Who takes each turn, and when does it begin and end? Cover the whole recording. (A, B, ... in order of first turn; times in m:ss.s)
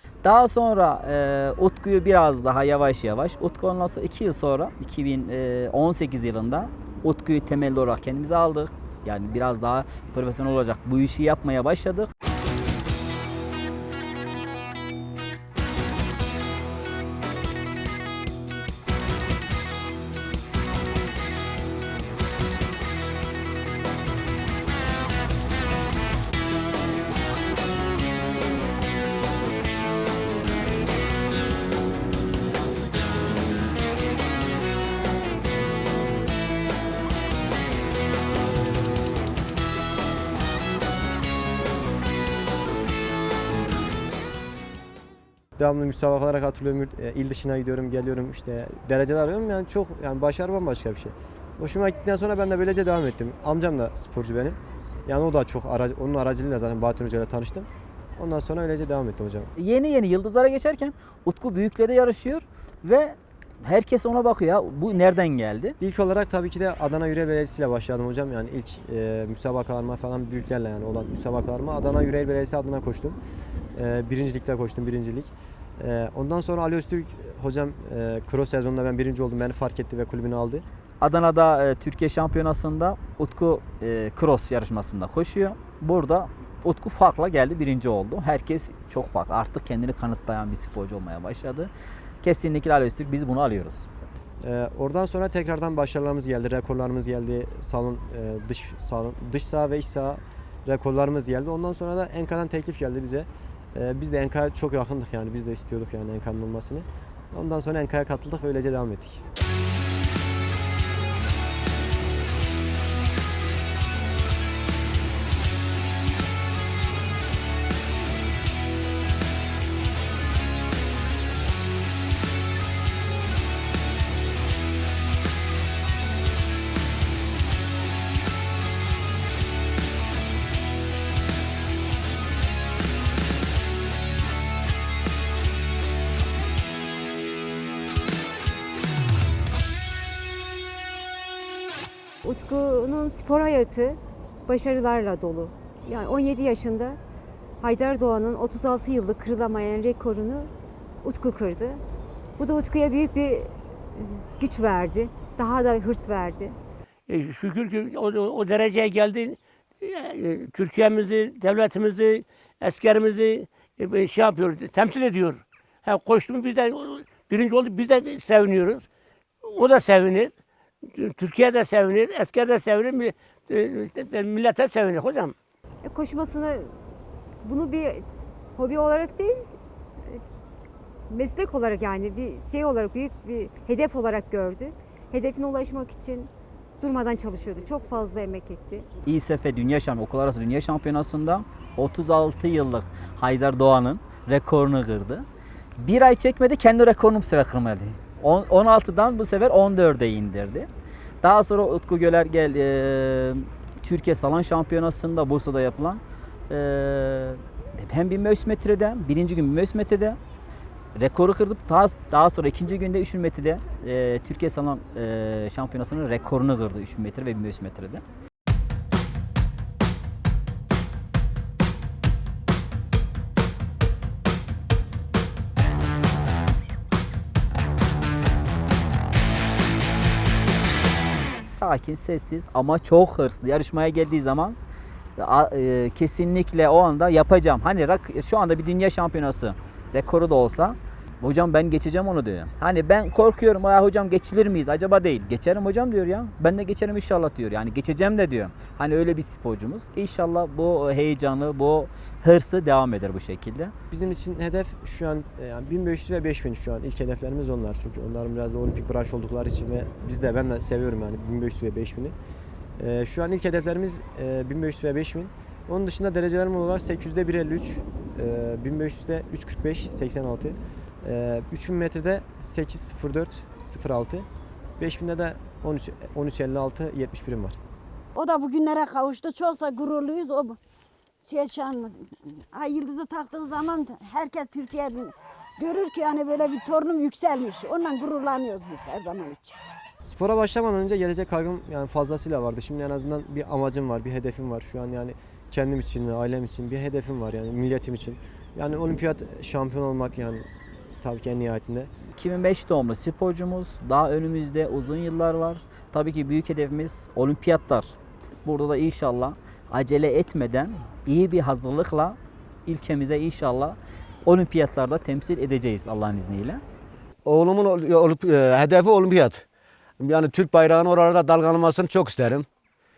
0:00.2-0:12.1 A
0:45.6-0:59.5 B
0:59.6-1:05.7 A
1:05.8-1:13.2 B
1:13.7-1:20.6 B
1:21.0-1:31.7 A
1:32.2-1:33.9 A
1:34.4-1:49.2 B
2:22.2-2:27.0 C
2:27.6-2:30.5 C
2:31.0-2:31.8 C
2:32.4-2:36.6 C
2:37.1-2:48.8 D
2:49.4-2:55.3 D
2:55.8-2:56.7 C
2:57.4-2:58.0 C
2:58.6-2:59.5 C
3:01.1-3:08.9 C
3:09.0-3:15.2 A
3:15.8-3:20.7 A
3:21.2-3:30.2 A
3:31.0-3:38.0 A
3:51.4-3:54.6 A
3:55.2-4:13.7 A
4:13.9-4:22.2 B
4:22.8-4:34.3 B
4:34.8-4:37.6 B
4:38.1-4:40.6 E
4:41.2-4:49.6 E
4:50.0-5:00.5 B
5:01.0-5:01.9 B
5:02.1-5:16.6 A
5:17.2-5:19.4 F
5:20.0-5:22.5 F